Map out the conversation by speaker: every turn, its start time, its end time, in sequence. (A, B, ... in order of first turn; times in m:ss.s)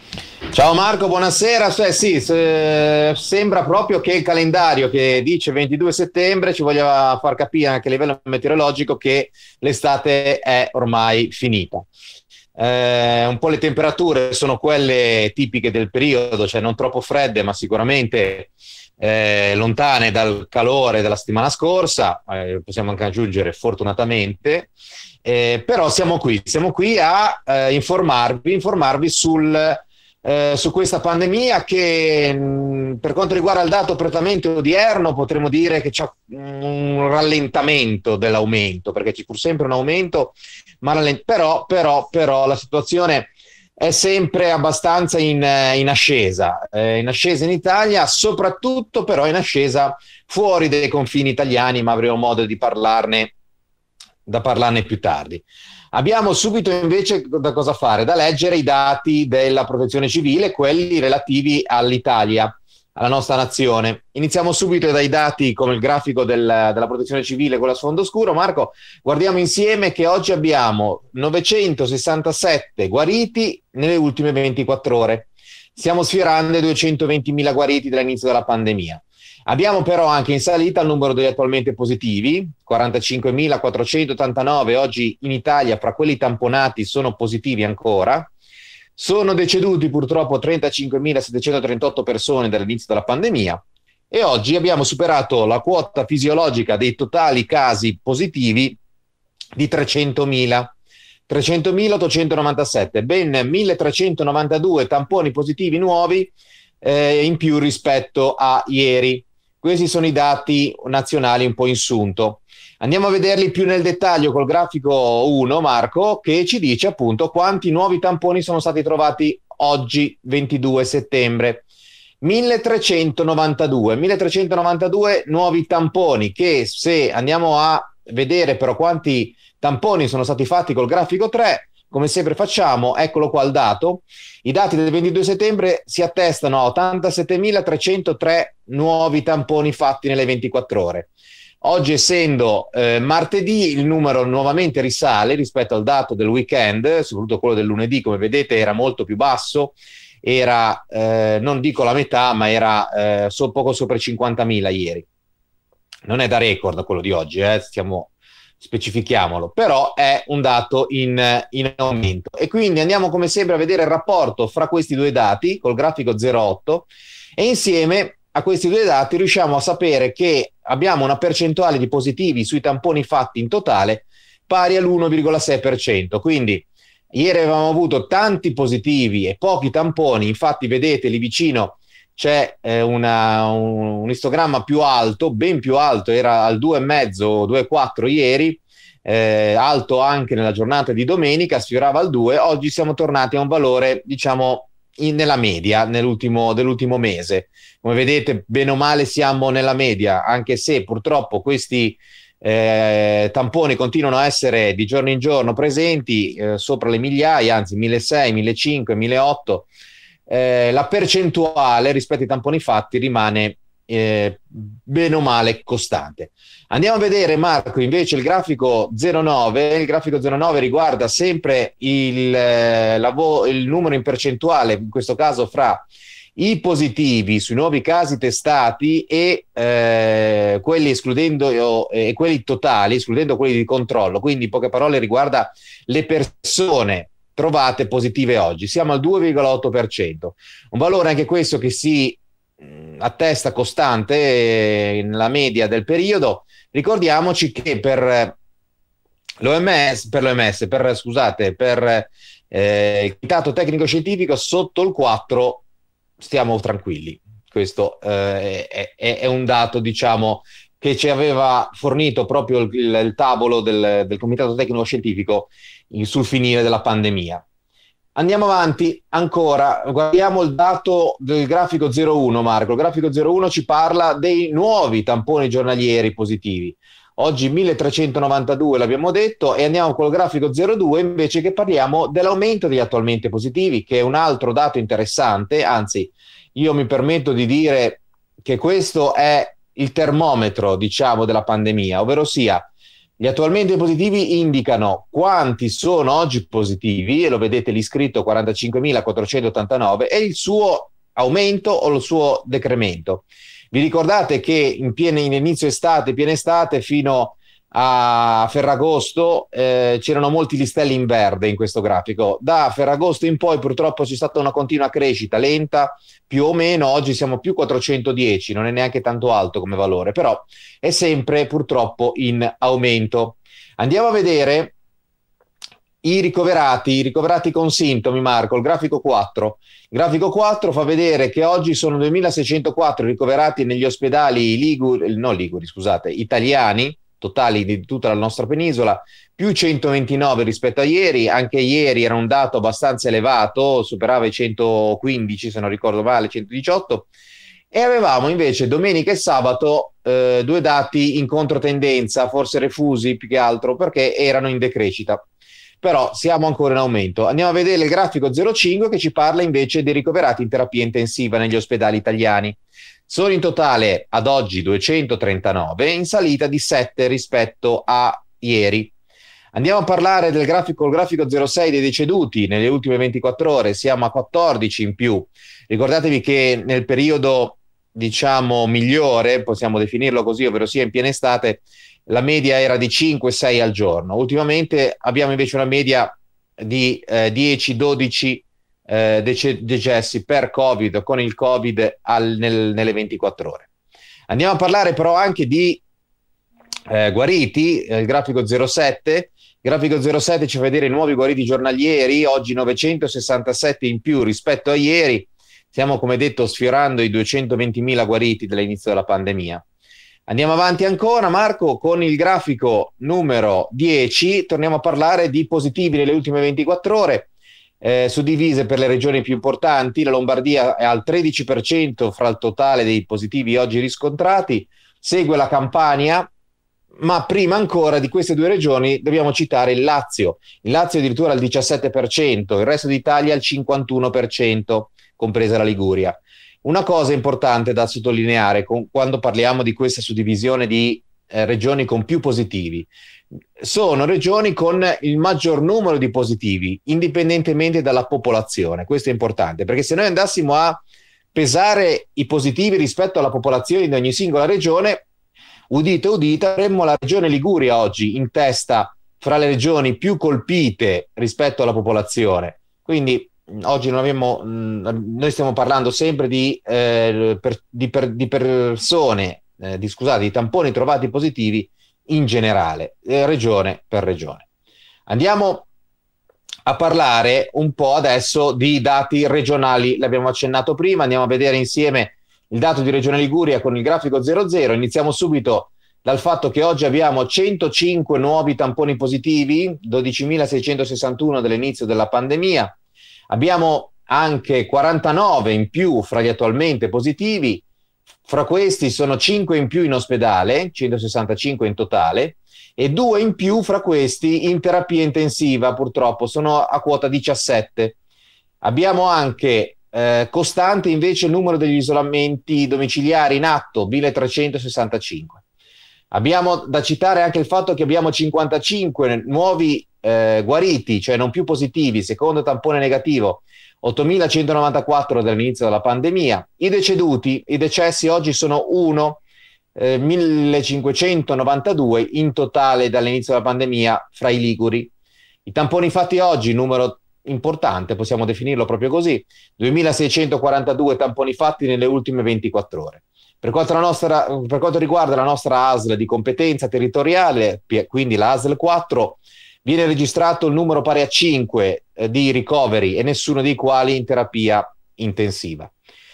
0:00.5-0:11.9 A
0:12.6-0:24.7 A
0:25.2-0:53.3 A
0:54.2-1:28.3 A
1:29.0-1:38.8 A
1:39.6-1:40.8 A
1:41.3-2:01.7 A
2:02.2-2:21.1 A
2:21.6-2:35.1 A
2:36.1-3:29.7 A
3:30.3-4:08.4 A
4:09.4-4:15.6 A
4:16.2-4:27.4 A
4:28.1-4:52.7 A
4:53.2-5:24.8 A
5:26.0-5:47.1 A
5:47.7-5:55.2 A
5:55.8-6:08.9 A
6:09.5-6:33.7 A
6:34.3-6:35.8 A
6:36.9-6:49.6 A
6:50.3-7:06.3 A
7:07.0-7:22.9 A
7:23.6-7:30.8 A
7:31.3-7:35.1 A
7:35.7-7:54.4 A
7:55.1-7:55.7 A
7:56.6-8:12.8 A
8:13.3-8:17.6 A
8:18.2-8:28.0 A
8:28.6-8:35.4 A
8:36.1-8:49.2 A
8:49.8-8:54.9 A
8:55.5-9:15.7 A